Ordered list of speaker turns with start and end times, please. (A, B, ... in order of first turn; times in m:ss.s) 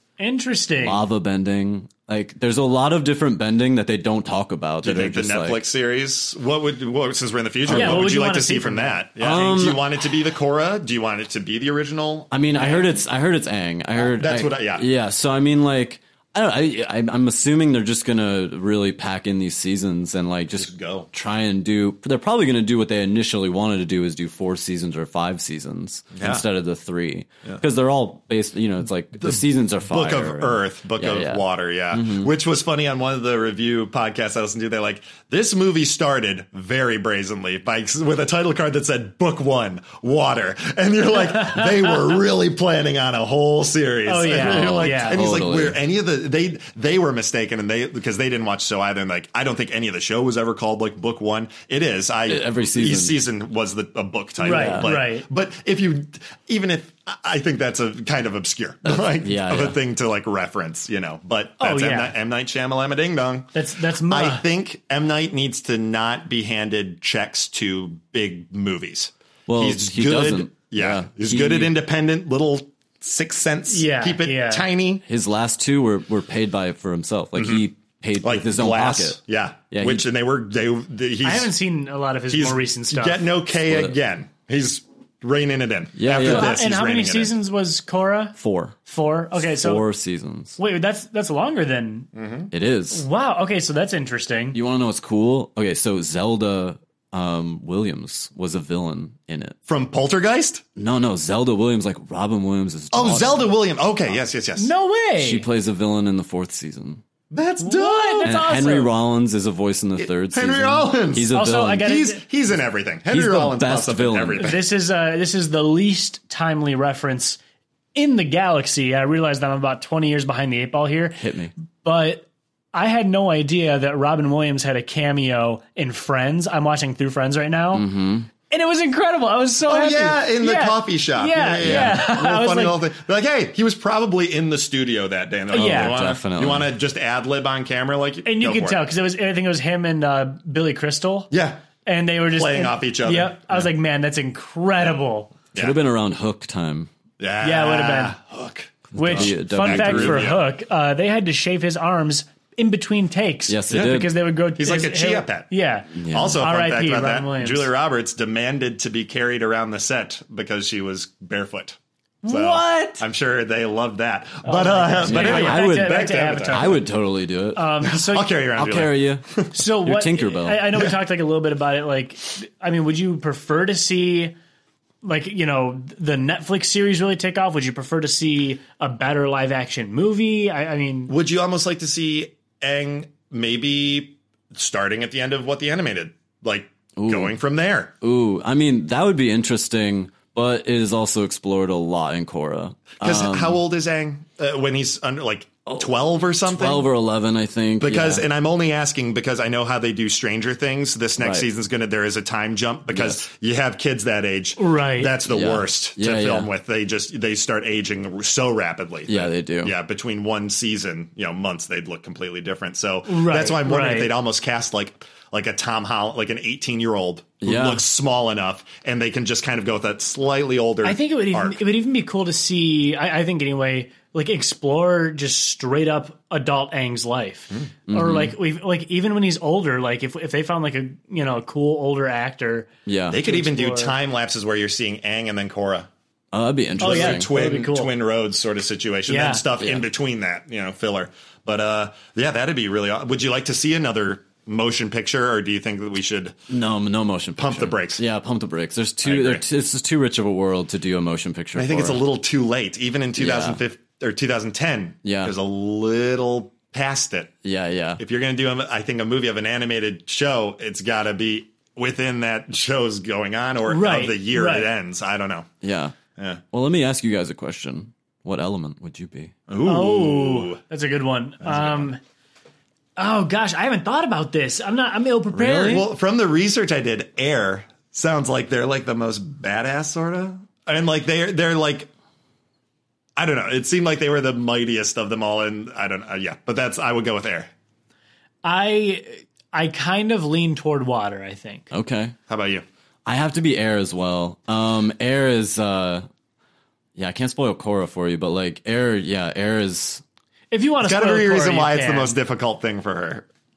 0:00.2-0:01.0 A
0:00.8-0:05.6 B
0:04.8-0:12.9 C
0:07.7-0:08.0 B
0:07.7-0:09.0 A
0:09.2-0:09.8 B
0:12.3-0:32.3 B
0:14.0-0:14.8 C
0:20.5-0:21.1 C
0:26.2-0:26.4 C
0:29.2-1:15.0 C
0:41.2-0:42.0 A
0:44.0-0:45.2 A
0:44.3-0:45.8 B
0:52.3-0:53.2 B
0:54.4-0:55.3 A
0:54.4-0:54.9 B
0:58.8-0:59.8 B
1:01.6-1:02.1 A
1:03.5-1:04.4 A
1:09.5-1:11.7 B
1:13.7-1:14.6 A
1:15.1-1:19.2 B
1:17.4-1:17.6 C
1:18.2-1:21.5 C
1:19.7-1:20.0 B
1:21.2-1:23.3 A
1:22.3-1:27.3 C
1:23.6-1:23.9 B
1:26.0-1:26.6 B
1:26.1-1:29.8 A
1:28.4-1:28.8 B
1:29.4-1:30.6 B
1:30.6-1:32.1 A
1:32.1-1:32.5 C
1:32.5-1:33.0 B
1:32.9-1:34.6 A
1:34.5-1:39.6 B
1:39.7-1:40.6 C
1:40.8-1:43.5 B
1:42.9-1:44.7 C
1:44.6-1:45.4 A
1:45.2-1:47.0 B
1:47.3-1:48.4 C
1:47.6-1:48.9 A
1:48.2-1:52.0 B
1:50.0-1:54.6 C
1:51.3-1:52.2 A
1:53.1-1:54.6 B
1:54.4-1:57.4 A
1:57.9-2:01.2 A
2:01.2-2:01.5 B
2:01.8-2:07.9 A
2:07.7-2:08.3 B
2:08.5-2:12.8 A
2:09.7-2:18.8 C
2:11.6-2:12.0 B
2:15.5-2:16.7 B
2:15.5-2:16.0 A
2:18.2-2:21.3 A
2:21.3-2:21.6 C
2:21.8-2:25.3 A
2:22.3-2:23.3 C
2:25.5-2:26.9 B
2:27.2-2:30.4 C
2:27.4-2:28.2 A
2:28.9-2:30.3 B
2:28.9-2:37.7 A
2:33.5-2:34.1 B
2:33.7-2:34.0 C
2:34.6-2:46.8 C
2:36.0-2:36.4 B
2:42.2-2:43.0 A
2:44.4-2:46.8 A
2:45.0-2:47.7 B
2:47.5-2:48.3 A
2:47.8-2:49.5 C
2:48.6-2:50.6 B
2:49.5-2:54.3 A
2:55.0-3:01.1 A
3:01.1-3:07.9 C
3:07.0-3:07.4 B
3:08.0-3:13.6 B
3:13.0-3:16.9 C
3:16.4-3:18.2 B
3:17.8-3:41.6 C
3:21.2-3:21.5 B
3:22.9-3:23.2 B
3:24.6-3:25.1 A
3:25.3-3:26.5 B
3:29.1-3:29.7 B
3:33.0-3:34.1 A
3:37.4-3:37.8 B
3:40.8-3:53.9 A
3:47.9-3:48.3 B
3:52.8-3:53.2 B
3:53.1-3:55.9 C
3:56.3-3:57.3 B
3:56.8-3:57.9 A
3:56.8-4:06.4 C
3:59.1-3:59.4 A
3:59.6-3:59.8 B
4:06.5-4:12.0 B
4:07.4-4:08.0 C
4:09.0-4:09.4 C
4:11.5-4:17.3 C
4:13.2-4:13.6 B
4:15.0-4:15.3 B
4:17.4-4:18.0 B
4:18.0-4:25.5 C
4:23.6-4:24.7 A
4:25.6-4:26.0 B
4:26.2-4:26.4 C
4:26.5-4:29.3 B
4:29.5-4:30.6 C
4:29.6-4:32.0 A
4:31.4-4:31.9 C
4:33.0-4:35.9 A
4:35.4-4:35.8 B
4:35.4-4:41.9 C
4:43.2-4:47.5 C
4:48.4-4:51.7 A
4:51.7-4:52.1 B
4:52.3-4:52.6 C
4:53.0-4:56.1 B
4:57.0-5:00.0 B
5:00.5-5:02.2 A
5:00.8-5:03.2 C